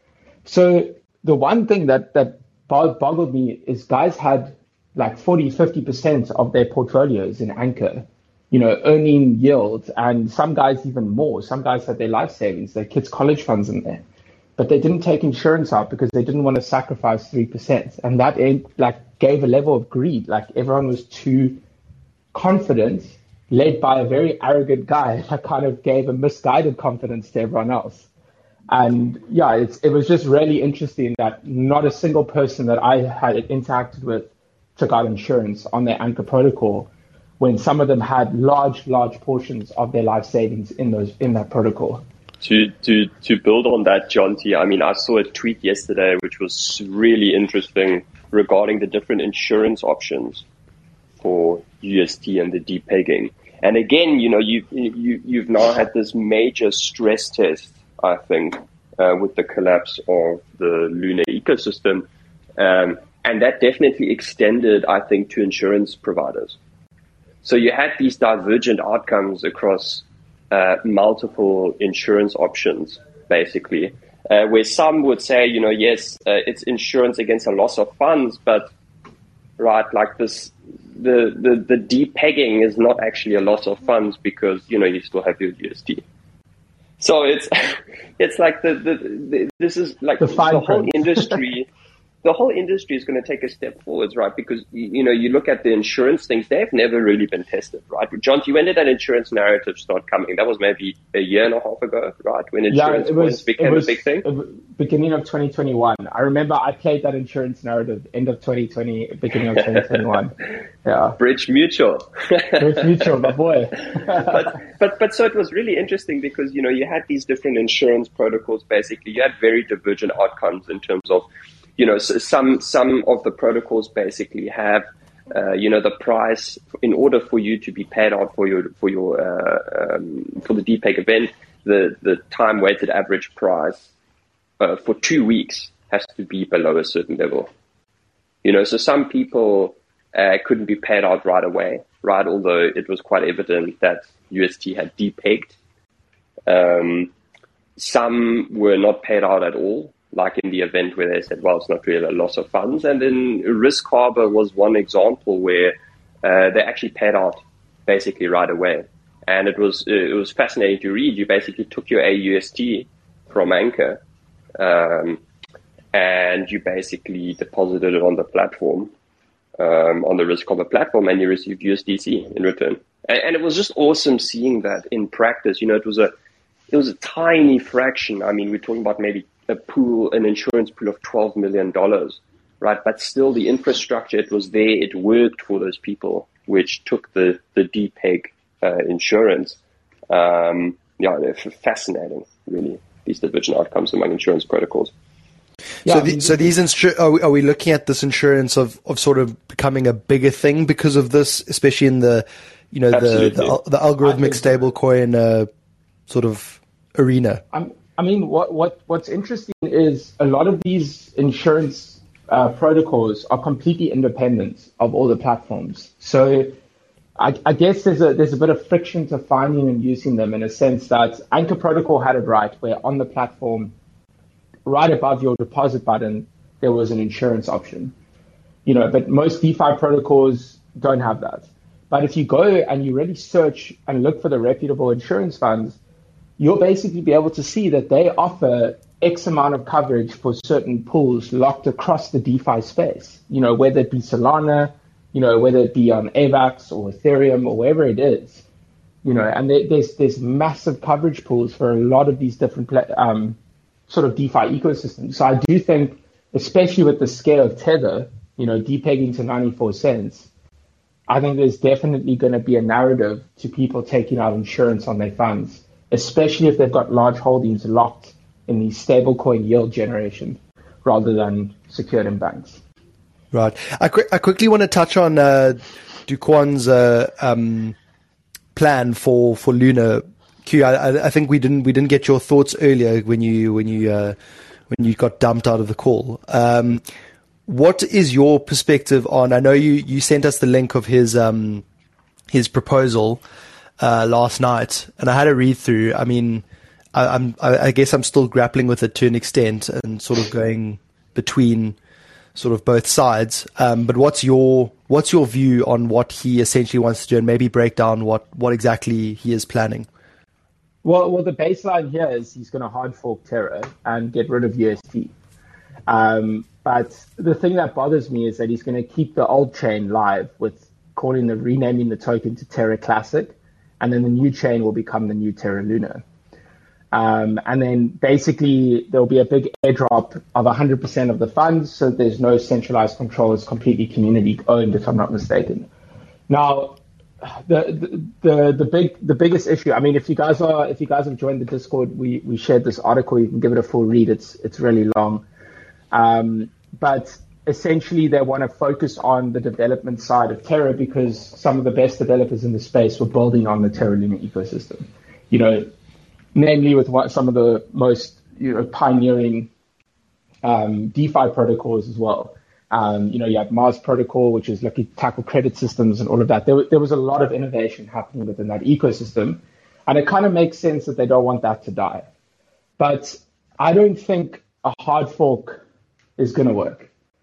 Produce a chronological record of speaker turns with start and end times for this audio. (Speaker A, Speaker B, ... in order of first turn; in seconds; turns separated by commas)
Speaker A: 0.5-14.0, Speaker A: 14.6-21.6, Speaker A: 22.3-28.1, Speaker A: 28.7-42.0, Speaker B: 42.4-50.5, Speaker B: 51.2-66.6, Speaker B: 67.4-78.7, Speaker B: 79.6-86.0, Speaker B: 87.0-91.7, Speaker A: 90.2-91.4, Speaker B: 92.2-104.3, Speaker A: 102.7-111.2, Speaker B: 111.2-113.2, Speaker A: 112.6-114.6, Speaker B: 114.0-121.2, Speaker B: 121.8-133.9, Speaker B: 134.6-137.5, Speaker B: 138.4-145.6, Speaker B: 146.5-147.1, Speaker B: 147.8-164.0, Speaker B: 164.6-165.2, Speaker B: 165.9-168.9, Speaker B: 169.6-176.1, Speaker B: 176.7-189.6, Speaker B: 190.1-194.9, Speaker A: 195.8-196.5, Speaker C: 195.8-205.5, Speaker B: 202.9-203.6, Speaker A: 204.0-204.6, Speaker C: 206.1-207.4, Speaker A: 207.5-216.6, Speaker A: 217.2-223.7, Speaker A: 224.7-227.9, Speaker A: 228.7-235.8, Speaker A: 236.4-248.4, Speaker A: 249.0-253.4, Speaker A: 253.9-260.3, Speaker A: 261.1-272.6, Speaker C: 273.3-277.8, Speaker C: 278.6-284.2, Speaker C: 284.7-286.8, Speaker C: 287.5-291.6, Speaker C: 292.3-293.2, Speaker C: 293.8-301.8, Speaker C: 302.4-309.9, Speaker A: 310.8-315.1, Speaker A: 315.9-326.0, Speaker A: 326.9-335.7, Speaker A: 336.3-345.2, Speaker A: 345.9-355.7, Speaker A: 356.4-359.5, Speaker A: 360.4-372.1, Speaker A: 372.8-375.6, Speaker A: 376.2-376.9